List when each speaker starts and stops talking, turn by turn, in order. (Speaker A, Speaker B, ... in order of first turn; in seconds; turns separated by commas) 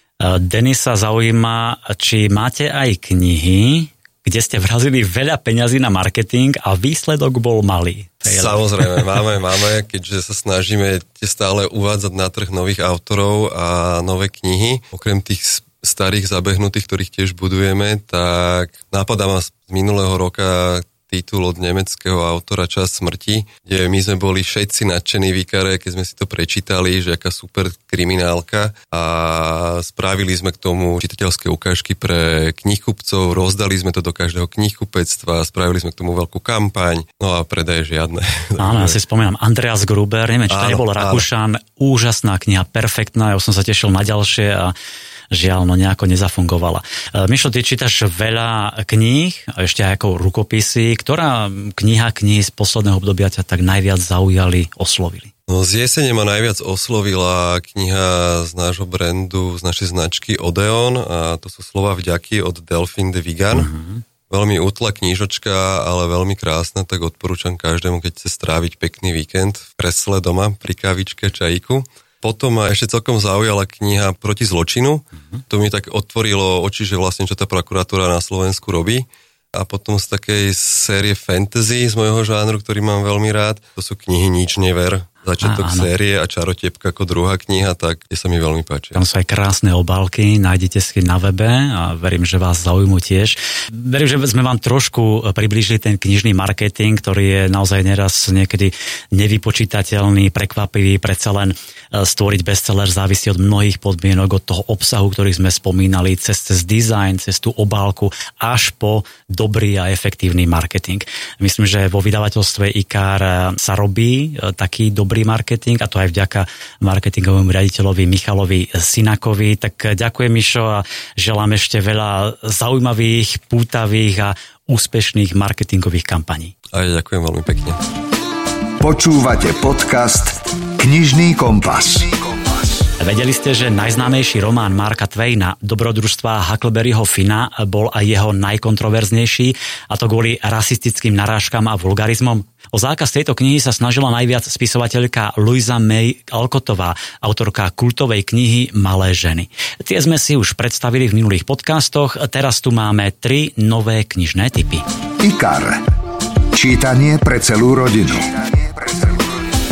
Speaker A: 0.2-9.1, Speaker B: 8.2-39.0, Speaker A: 38.6-44.7, Speaker B: 40.5-41.2, Speaker A: 45.3-55.3, Speaker B: 55.5-63.7, Speaker A: 63.5-64.0, Speaker B: 64.3-89.0, Speaker A: 85.4-85.9, Speaker A: 88.9-126.5, Speaker B: 126.7-127.8, Speaker C: 128.8-132.9, Speaker A: 133.0-154.8, Speaker C: 155.2-155.8, Speaker C: 156.5-159.5